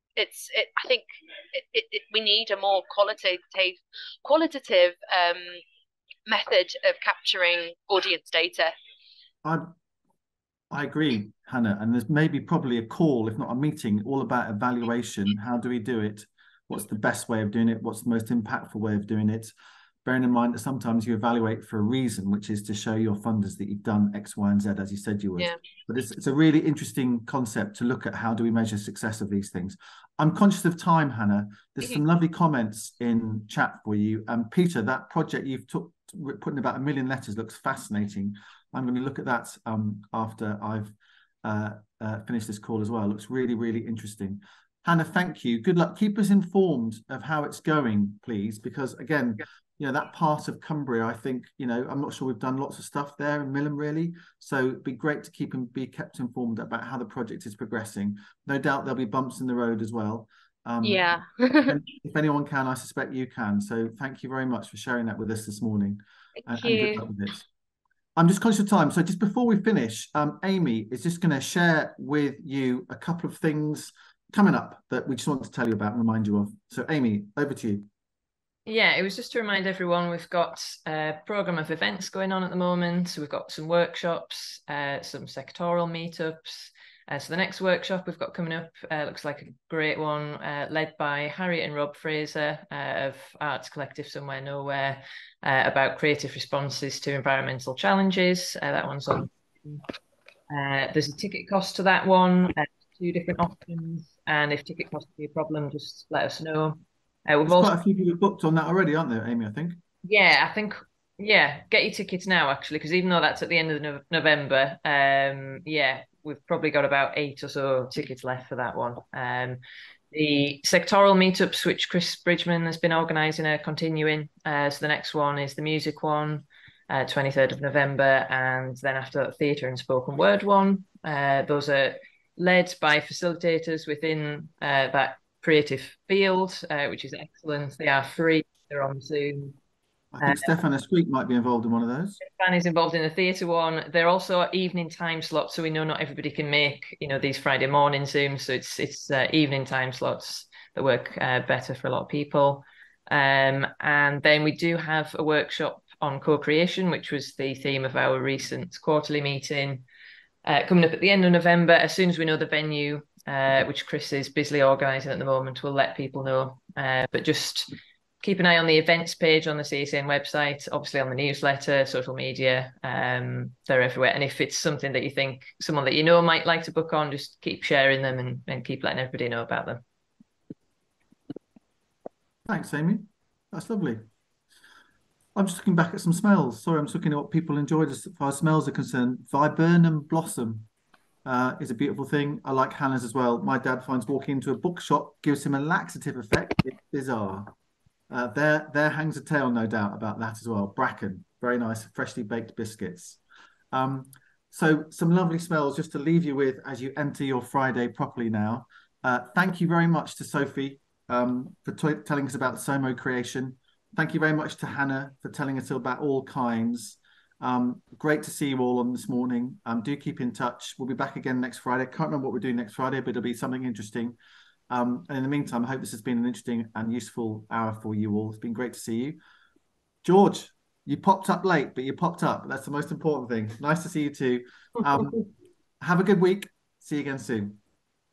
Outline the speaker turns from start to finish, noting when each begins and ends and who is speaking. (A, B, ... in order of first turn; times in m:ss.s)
0:00.2-0:05.6 A
0:06.3-0:08.7 A
0:09.4-0:09.7 B
0:10.7-0:19.5 B
0:20.0-1:07.4 B
1:00.8-1:01.8 A
1:06.4-1:07.1 A
1:08.2-1:17.9 B
1:18.6-1:39.8 C
1:40.5-1:47.7 C
1:47.4-1:49.8 B
1:50.0-1:59.6 C
2:00.1-2:19.6 C
2:20.1-2:22.2 B
2:20.2-2:20.5 C
2:22.2-2:39.8 C
2:40.4-2:59.8 C
3:02.5-3:04.0 B
3:05.3-3:10.7 B
3:11.2-3:17.5 B
3:18.1-3:23.2 B
3:23.7-3:44.2 B
3:44.7-3:49.2 B
3:50.0-3:55.3 B
3:55.8-3:57.6 B